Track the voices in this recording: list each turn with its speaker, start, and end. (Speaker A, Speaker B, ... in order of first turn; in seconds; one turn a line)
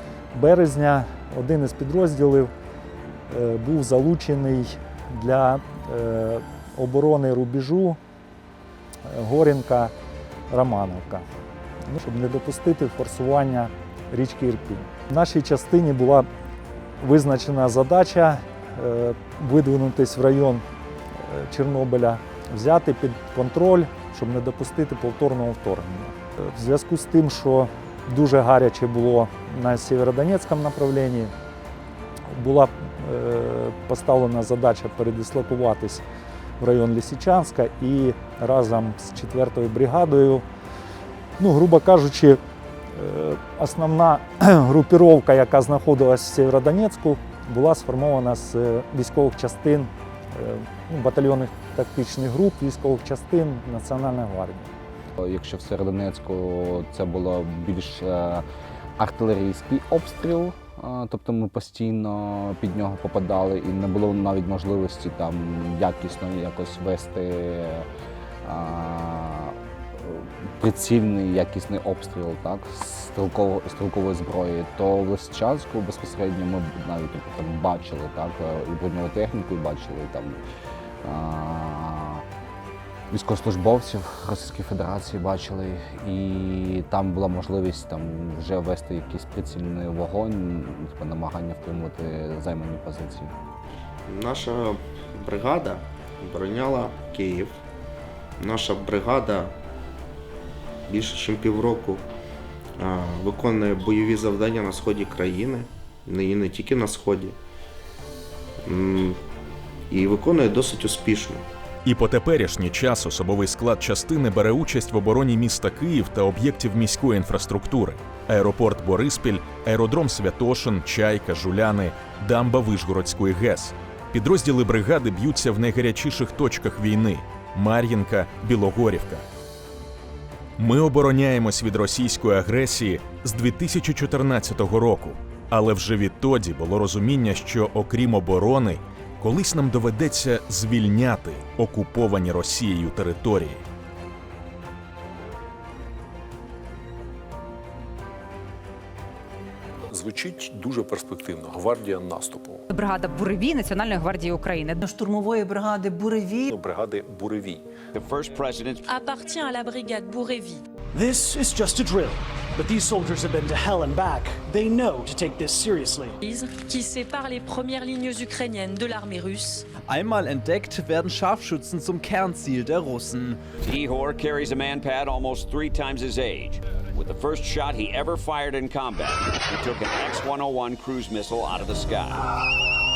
Speaker A: 0.3-2.5
Speaker A: 3.3-8.0
Speaker A: 9.1-9.9
Speaker A: 10.5-11.2
Speaker A: 11.9-16.3
Speaker A: 17.0-20.6
Speaker A: 21.2-31.3
Speaker A: 32.3-36.0
Speaker A: 36.6-40.4
Speaker A: 41.4-42.4
Speaker A: 42.9-54.7
Speaker B: 55.2-58.4
Speaker B: 59.0-67.8
Speaker B: 68.4-80.3
Speaker B: 81.0-82.2
Speaker B: 83.1-93.3
Speaker C: 94.1-97.5
Speaker C: 98.4-99.5
Speaker C: 100.9-102.0
Speaker C: 102.8-107.3
Speaker C: 108.6-109.2
Speaker C: 109.9-111.4
Speaker D: 111.8-129.2
Speaker D: 130.6-143.6
Speaker E: 149.9-152.5
Speaker F: 152.7-155.1
Speaker G: 157.9-158.9
Speaker H: 159.1-160.6
Speaker I: 161.0-166.1
Speaker H: 166.2-169.6
Speaker J: 169.9-173.3
Speaker G: 173.6-182.3